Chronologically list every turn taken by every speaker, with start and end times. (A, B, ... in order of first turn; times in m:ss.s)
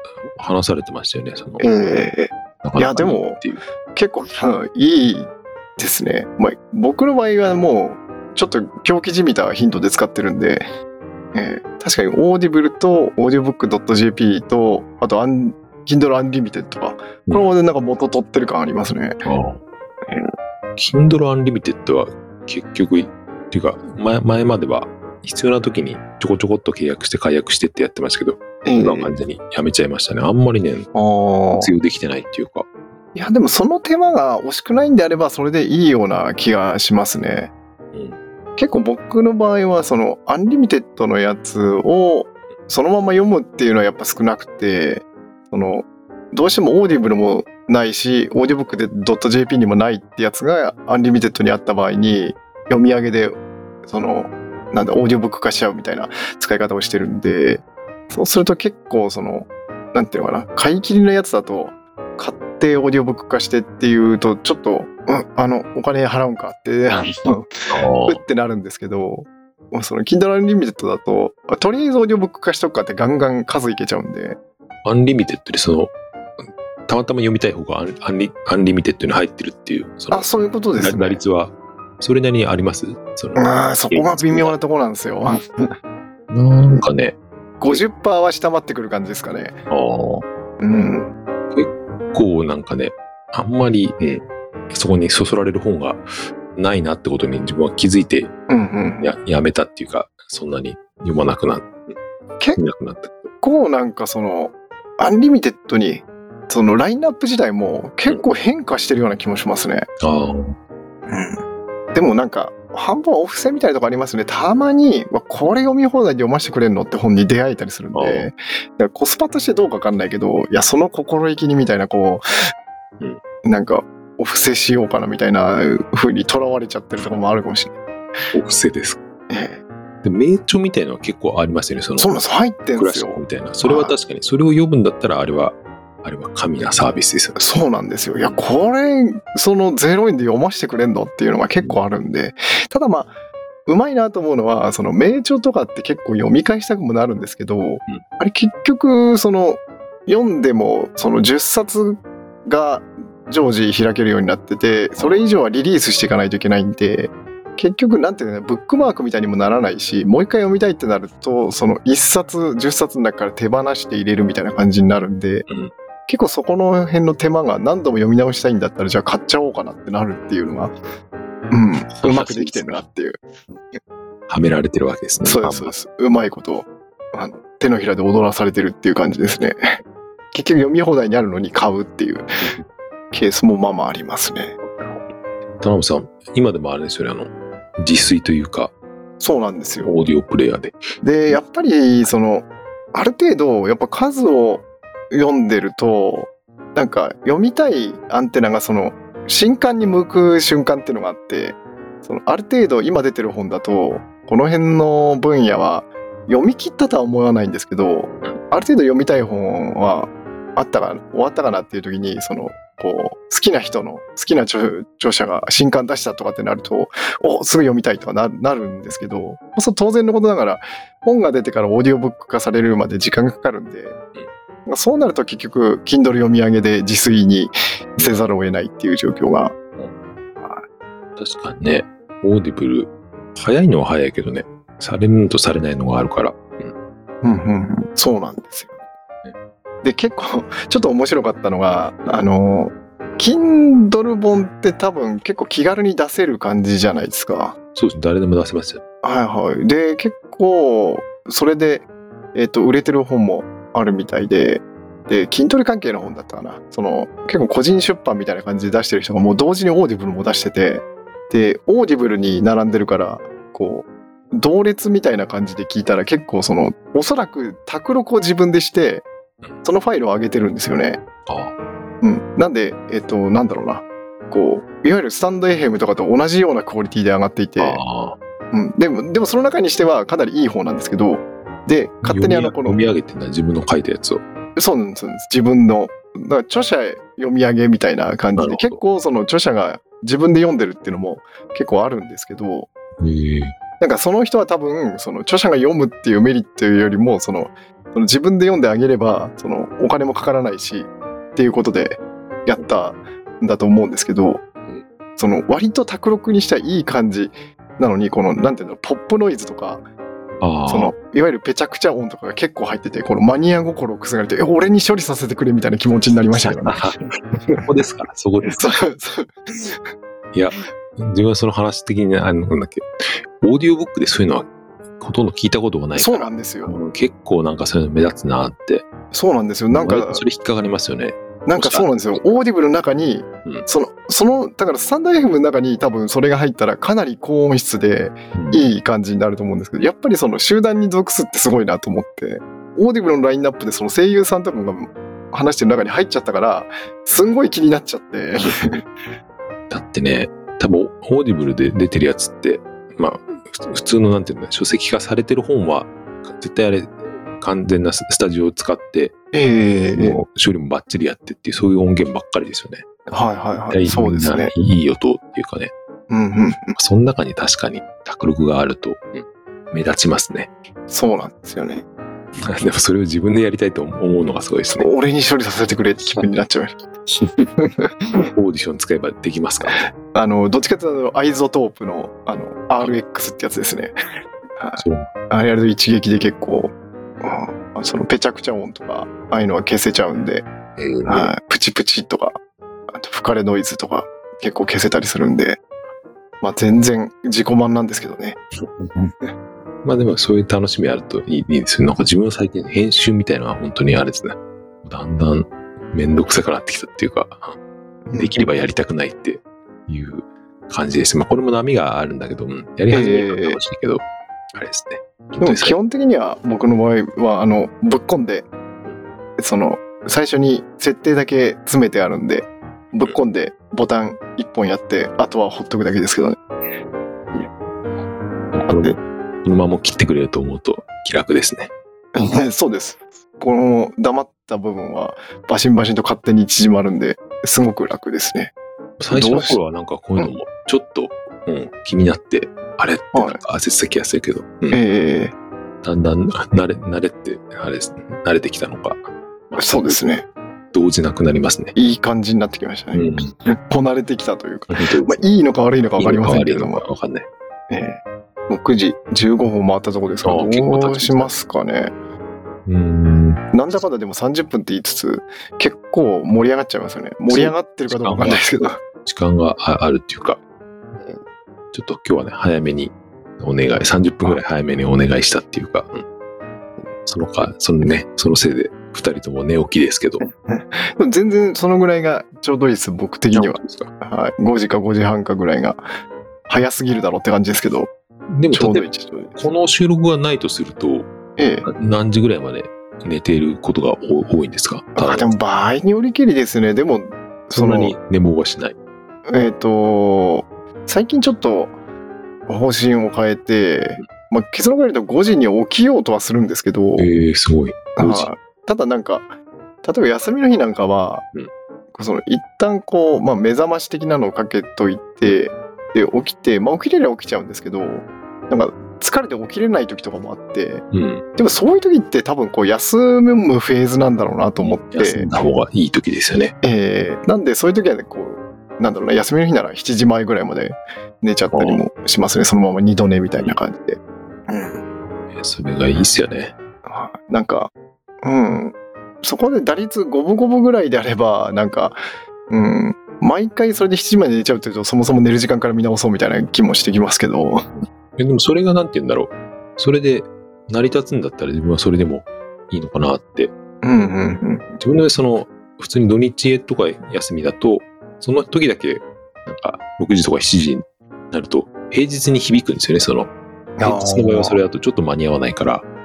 0:00.1-0:01.7 A
0:01.6-0:03.4 B
0:02.6-0:03.6 A
0:03.9-0:10.7 B
0:11.3-0:19.2 B
0:19.2-0:19.6 A
0:20.8-0:30.9 A
0:28.6-0:29.2 B
0:30.9-0:31.7 B
0:31.6-0:32.7 A
0:33.2-0:37.5 B
0:37.9-0:38.2 A
0:38.6-1:14.4 B
1:07.7-1:08.2 A
1:14.8-1:15.9 A
1:16.9-1:24.6 A
1:20.1-1:21.2 B
1:23.4-1:25.7 B
1:26.3-1:27.8 A
1:27.6-1:29.6 B
1:29.7-1:30.2 A
1:30.6-1:31.1 B
1:31.5-1:38.3 A
1:38.5-1:39.1 B
1:39.0-1:42.0 A
1:42.6-1:43.3 A
1:43.4-1:49.9 B
1:50.0-1:50.6 A
1:51.1-1:51.4 B
1:51.9-2:02.2 B
1:58.0-1:58.3 A
2:03.4-2:07.8 B
2:08.3-2:09.0 A
2:09.3-2:09.6 B
2:10.0-2:12.1 A
2:12.0-2:14.0 B
2:12.8-2:17.4 A
2:17.4-2:23.1 B
2:23.7-2:45.5 B
2:35.0-2:35.2 A
2:46.1-2:50.7 B
2:51.5-2:53.8 B
2:52.0-2:52.8 A
2:54.3-2:55.7 A
2:55.2-2:59.8 B
3:00.3-3:02.3 B
3:03.1-3:04.6 B
3:04.6-3:05.0 A
3:05.6-3:08.7 A
3:09.2-3:10.0 B
3:09.8-3:11.4 A
3:11.0-3:44.0 B
3:44.7-3:49.6 B
3:50.4-3:50.6 B
3:51.2-3:56.7 A
3:57.2-3:58.8 B
3:59.8-4:07.6 B
4:07.8-4:08.8 A
4:09.0-4:29.1 B
4:29.6-4:31.0 B
4:31.3-4:31.5 A
4:32.0-4:37.8 B
4:37.6-4:38.2 A
4:38.5-4:42.8 B
4:42.0-4:44.2 A
4:44.6-4:52.7 B
4:48.4-4:48.8 A
4:53.0-4:53.6 A
4:53.8-5:04.4 B
5:05.2-5:09.8 B
5:10.4-5:10.9 A
5:10.7-5:16.8 B
5:16.3-5:17.0 A
5:17.6-5:18.6 A
5:18.5-5:19.8 B
5:20.3-5:28.9 A
5:26.0-5:26.8 B
5:29.1-5:30.2 B
5:29.7-5:32.3 A
5:31.5-5:48.9 B
5:38.4-5:38.7 A
5:48.4-5:48.8 A
5:49.7-5:59.1 A
5:59.3-6:00.2 B
6:00.0-6:02.8 A
6:03.1-6:04.5 B
6:03.7-6:05.7 A
6:06.1-6:06.8 B
6:06.7-6:10.5 A
6:10.9-6:11.8 B
6:12.5-6:14.9 A
6:14.8-6:17.9 B
6:18.3-6:19.8 A
6:19.7-6:23.9 B
6:24.6-6:30.5 B
6:24.8-6:25.1 A
6:30.8-6:31.3 A
6:31.1-6:32.4 B
6:32.9-6:35.6 B
6:36.4-6:38.4 B
6:39.8-6:47.6 A
6:48.1-6:48.4 B
6:48.2-6:55.8 A
6:52.9-6:53.6 B
6:55.4-6:58.5 B
6:59.4-7:06.4 B
7:08.6-7:11.7 A
7:08.7-7:09.0 B
7:12.2-7:18.5 B
7:19.0-7:24.8 A
7:19.1-7:19.6 B
7:23.1-7:23.4 B
7:24.7-7:25.4 B
7:25.8-7:30.0 A
7:29.6-7:30.3 B
7:30.7-7:31.7 A
7:31.8-7:36.8 B
7:32.9-7:33.3 A
7:34.7-7:35.2 A
7:36.0-7:37.3 A
7:37.7-7:41.9 B
7:40.2-7:41.4 A
7:42.7-7:43.4 A
7:43.5-7:48.8 B
7:47.3-7:48.5 A
7:49.0-7:50.4 A
7:51.7-7:56.0 A
7:57.1-8:00.2 A
8:00.2-8:05.9 B
8:03.3-8:03.9 A
8:06.5-8:07.9 B
8:08.3-8:11.1 A
8:08.5-8:09.4 B
8:11.4-8:11.7 B
8:11.6-8:15.3 A
8:15.0-8:18.0 B
8:17.5-8:18.8 A
8:19.3-8:21.8 B
8:22.5-8:27.1 B
8:27.0-8:28.3 A
8:28.0-8:29.3 B
8:29.8-8:31.2 B
8:31.9-8:40.8 B
8:40.9-8:41.2 A
8:41.4-8:45.3 B
8:44.6-8:46.6 A
8:46.6-8:54.8 B
8:51.5-8:51.8 A
8:55.3-8:56.5 A
8:56.9-9:07.7 B
9:07.8-9:13.5 A
9:13.8-9:14.8 B
9:14.8-9:25.8 A
9:23.8-9:24.6 B